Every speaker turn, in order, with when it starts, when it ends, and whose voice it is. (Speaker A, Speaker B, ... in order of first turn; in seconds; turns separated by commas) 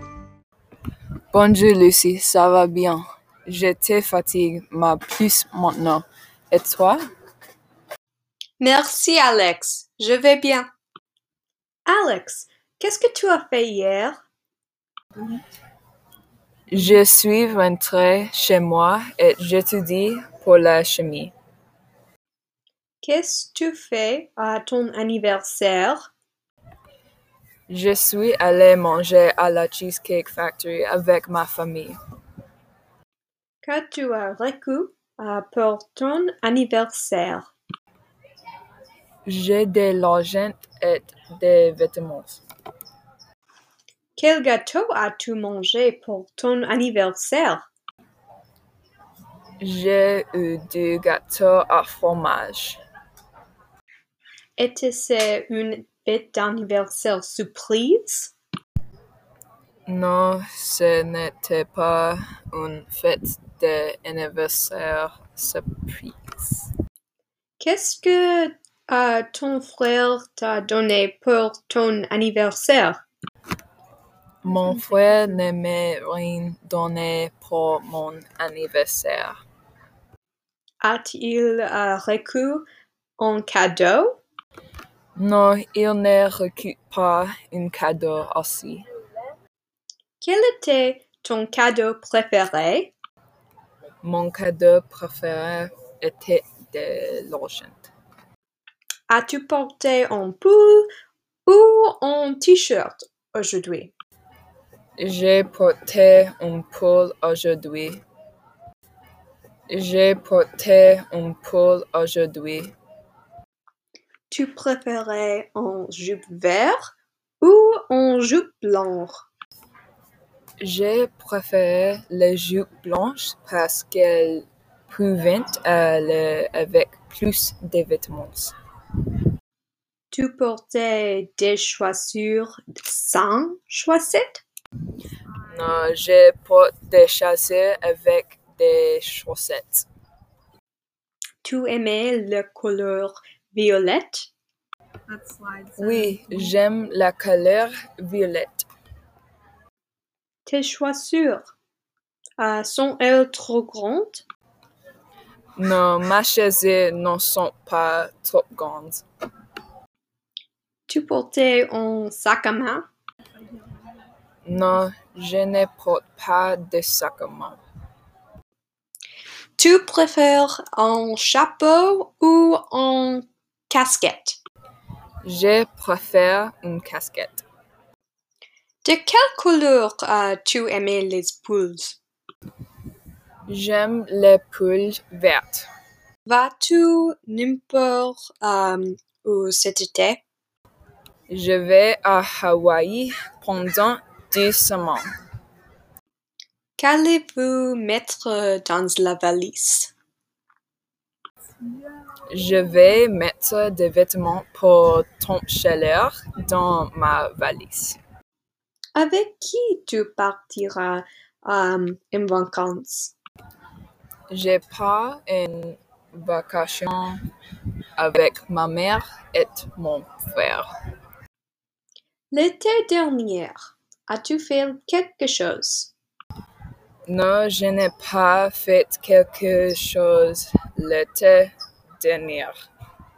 Speaker A: 1.3-7.0, Speaker B: 8.6-10.7, Speaker B: 11.9-14.2, Speaker A: 16.7-21.3, Speaker B: 23.0-26.1, Speaker A: 27.7-32.0, Speaker B: 33.6-37.5, Speaker A: 39.3-42.4, Speaker B: 44.2-47.7, Speaker A: 49.6-52.8, Speaker B: 54.6-58.3, Speaker A: 59.9-66.7, Speaker B: 67.6-73.0, Speaker A: 74.4-79.4, Speaker B: 80.8-82.7, Speaker B: 83.2-84.2, Speaker A: 85.2-88.8, Speaker B: 90.2-92.9, Speaker A: 94.0-97.8, Speaker B: 99.1-100.9, Speaker B: 101.5-103.9, Speaker A: 105.0-108.0, Speaker A: 109.7-112.7, Speaker B: 114.3-119.3, Speaker A: 120.6-128.5, Speaker B: 130.1-134.4, Speaker A: 135.5-139.9, Speaker B: 141.4-144.3, Speaker B: 145.1-146.1, Speaker A: 145.8-148.7, Speaker B: 150.5-151.5, Speaker B: 152.4-154.2, Speaker A: 155.6-159.0, Speaker B: 160.9-162.9, Speaker A: 164.4-167.6, Speaker B: 169.6-174.4, Speaker A: 175.2-177.4, Speaker B: 178.8-182.0, Speaker A: 183.5-185.7, Speaker B: 186.2-190.2, Speaker A: 191.3-195.1, Speaker B: 196.8-199.9, Speaker A: 202.3-208.0, Speaker B: 209.0-213.1, Speaker A: 214.3-217.2, Speaker A: 218.0-220.7, Speaker B: 222.3-225.9, Speaker A: 227.1-232.6